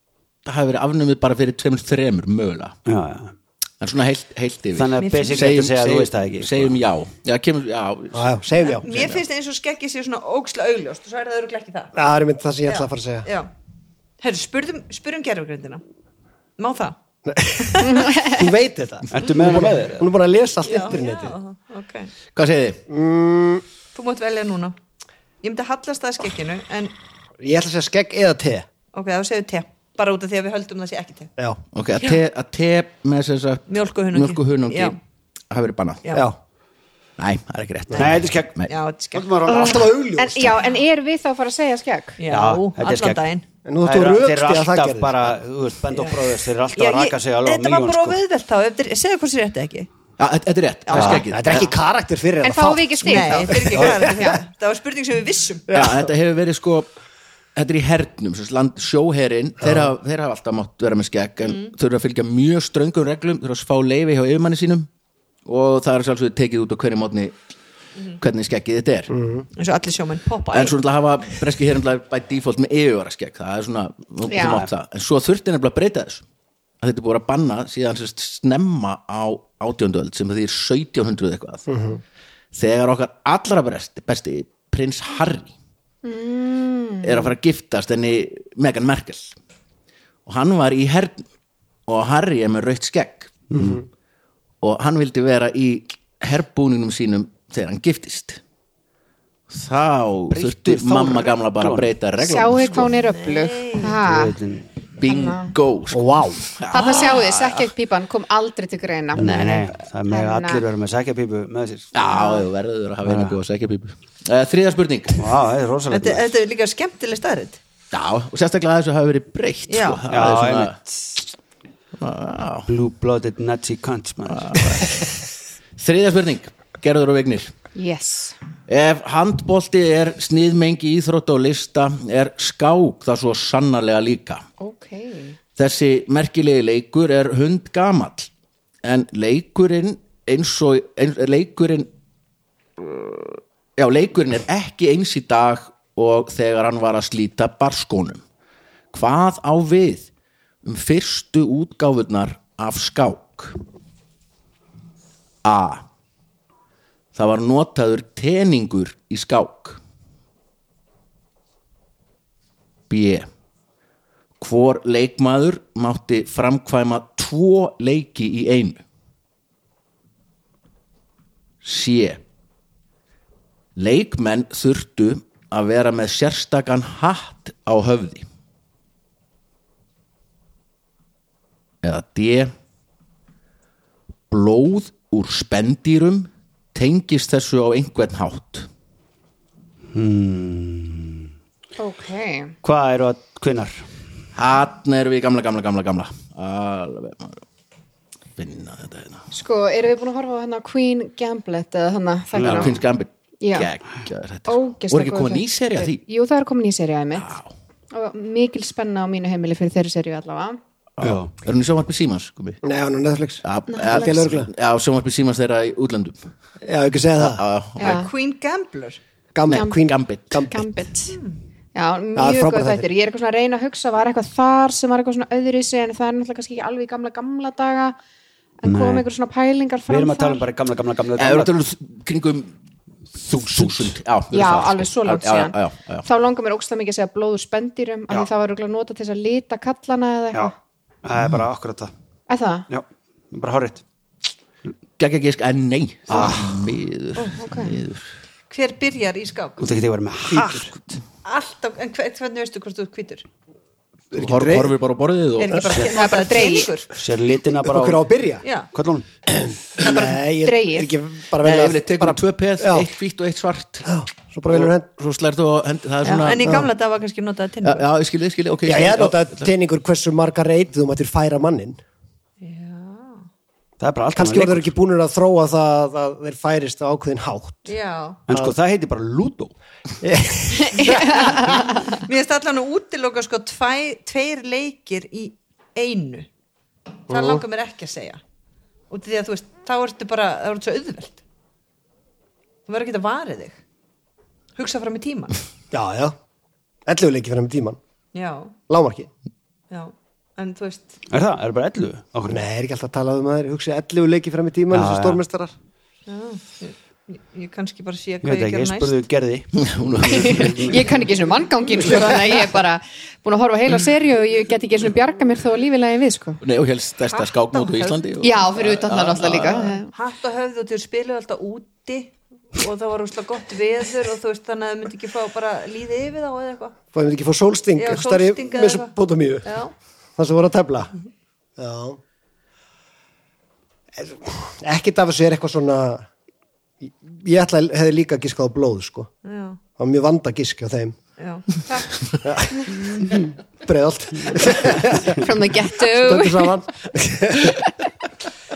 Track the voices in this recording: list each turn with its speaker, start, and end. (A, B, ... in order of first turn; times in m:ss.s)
0:00.4-0:02.8 A
0:02.9-0:03.3 B
0:03.8-0:09.2 A
0:04.8-0:06.7 B
0:05.0-0:05.5 C
0:08.1-0:08.9 D
0:08.7-0:11.9 C
0:12.0-0:13.3 D
0:12.7-0:13.5 C
0:14.2-0:15.8 C
0:16.6-0:17.0 C
0:17.3-0:21.4 D
0:17.6-0:18.1 C
0:17.8-0:18.3 E
0:19.1-0:20.1 B
0:20.6-0:22.1 C
0:22.4-0:22.8 A
0:22.9-0:23.6 D
0:23.9-0:24.8 C
0:25.4-0:26.9 C
0:27.4-0:28.7 D
0:28.9-0:31.3 C
0:31.7-0:35.0 A
0:33.7-0:35.0 C
0:35.5-0:36.0 A
0:37.2-0:38.7 A
0:37.9-0:38.6 B
0:38.7-0:39.5 C
0:39.1-0:39.9 B
0:39.5-0:40.6 D
0:39.5-0:42.2 E
0:42.2-0:43.4 C
0:42.3-0:43.2 B
0:43.7-0:45.4 D
0:43.8-0:48.2 B
0:46.8-0:49.9 C
0:50.2-0:51.7 A
0:50.9-0:51.2 C
0:51.0-0:51.3 B
0:51.0-0:54.4 D
0:52.4-0:54.1 E
0:53.0-0:55.7 C
0:55.7-0:56.1 D
0:55.7-0:56.9 A
0:57.6-1:04.9 A
0:59.6-0:59.9 D
1:01.4-1:01.7 C
1:05.4-1:07.4 A
1:08.2-1:09.1 A
1:09.1-1:09.5 D
1:09.6-1:10.8 C
1:10.5-1:16.2 A
1:14.3-1:14.6 E
1:16.8-1:21.7 A
1:21.7-1:22.0 D
1:22.5-1:25.5 A
1:26.0-1:27.3 E
1:27.0-1:29.4 A
1:30.3-1:31.2 A
1:31.9-1:33.4 A
1:33.5-1:33.8 B
1:33.6-1:33.8 D
1:34.6-1:38.4 A
1:39.5-1:42.9 A
1:40.3-1:41.9 B
1:42.2-1:44.4 E
1:43.1-1:44.0 C
1:44.0-1:44.7 B
1:45.0-1:47.7 A
1:45.1-1:45.5 E
1:45.9-1:46.4 D
1:46.7-1:50.6 E
1:49.2-1:51.9 B
1:51.9-1:55.3 A
1:53.0-1:53.4 B
1:55.2-1:56.3 B
1:55.9-1:57.6 C
1:57.9-2:00.8 A
1:59.7-2:00.0 C
2:00.1-2:01.2 B
2:02.0-2:02.7 A
2:02.7-2:04.8 B
2:04.3-2:05.0 A
2:05.8-2:07.5 A
2:07.8-2:08.4 E
2:08.7-2:14.4 A
2:14.6-2:15.4 E
2:15.6-2:18.3 A
2:18.8-2:21.9 A
2:22.8-2:28.2 A
2:28.9-2:30.1 A
2:30.6-2:33.6 A
2:35.4-2:35.8 A
2:37.1-2:39.8 A
2:42.9-2:43.3 A
2:44.4-2:48.8 A
2:51.6-2:52.2 A
2:53.8-2:58.3 A
3:01.8-3:02.5 A
3:04.3-3:08.7 A
3:09.9-3:11.3 B
3:11.8-3:12.5 E
3:12.6-3:13.8 B
3:14.4-3:17.4 A
3:18.4-3:19.2 A
3:19.3-3:22.7 E
3:22.4-3:22.7 B
3:22.4-3:26.0 A
3:23.4-3:23.7 E
3:24.5-3:27.4 E
3:27.1-3:27.5 A
3:27.9-3:30.6 E
3:31.0-3:32.6 A
3:31.0-3:31.3 B
3:32.6-3:34.5 D
3:33.4-3:36.3 A
3:33.7-3:34.1 E
3:36.6-3:37.4 D
3:37.2-3:38.1 A
3:37.8-3:38.1 E
3:37.8-3:39.0 C
3:39.4-3:40.7 D
3:39.5-3:40.5 A
3:39.5-3:39.8 E
3:40.5-3:41.2 E
3:41.1-3:41.4 C
3:41.8-3:48.0 E
3:42.2-3:42.9 D
3:48.6-3:50.5 E
3:48.6-3:49.1 B
3:49.9-3:51.5 B
3:51.2-3:52.6 A
3:53.2-3:56.1 A
3:53.4-3:53.9 B
3:54.3-4:00.5 E
4:00.3-4:01.9 B
4:02.3-4:02.7 E
4:02.7-4:03.8 B
4:05.0-4:08.1 A
4:06.1-4:06.6 B
4:07.4-4:07.8 E
4:08.5-4:09.7 C
4:09.6-4:10.9 B
4:10.3-4:10.7 D
4:11.2-4:13.2 C
4:14.1-4:14.7 D
4:14.2-4:15.8 A
4:15.4-4:16.9 C
4:15.9-4:16.7 E
4:17.0-4:18.1 B
4:17.6-4:18.4 D
4:18.4-4:18.7 C
4:18.7-4:19.1 B
4:19.3-4:22.9 D
4:20.4-4:20.9 E
4:21.4-4:23.9 A
4:23.9-4:24.9 D
4:24.5-4:26.7 A
4:26.2-4:27.8 C
4:27.6-4:29.5 A
4:28.6-4:31.8 D
4:32.4-4:33.2 C
4:33.8-4:34.7 B
4:34.1-4:37.7 D
4:37.7-4:38.2 C
4:38.3-4:39.5 B
4:40.0-4:41.5 D
4:40.6-4:41.9 E
4:41.9-4:46.3 C
4:47.1-4:48.2 C
4:47.1-4:47.4 D
4:48.9-4:51.2 C
4:52.7-4:53.6 C
4:54.6-4:55.4 C
4:55.7-4:56.2 D
4:56.9-4:57.8 D
4:58.1-4:58.6 C
4:58.7-4:59.1 D
4:59.7-5:01.0 C
5:01.1-5:02.4 B
5:02.3-5:05.5 D
5:04.7-5:05.2 B
5:06.1-5:09.0 C
5:08.2-5:10.8 B
5:09.6-5:10.8 A
5:10.1-5:16.4 E
5:16.4-5:19.8 A
5:17.2-5:18.0 C
5:18.2-5:19.9 E
5:19.9-5:26.8 C
5:26.9-5:29.6 D
5:27.8-5:29.7 C
5:30.2-5:30.9 D
5:31.6-5:32.0 D
5:34.0-5:36.1 D
5:36.8-5:39.1 D
5:39.2-5:39.6 C
5:39.8-5:41.0 D
5:41.2-5:41.5 C
5:42.2-5:45.2 D
5:45.1-5:46.6 E
5:45.9-5:47.6 D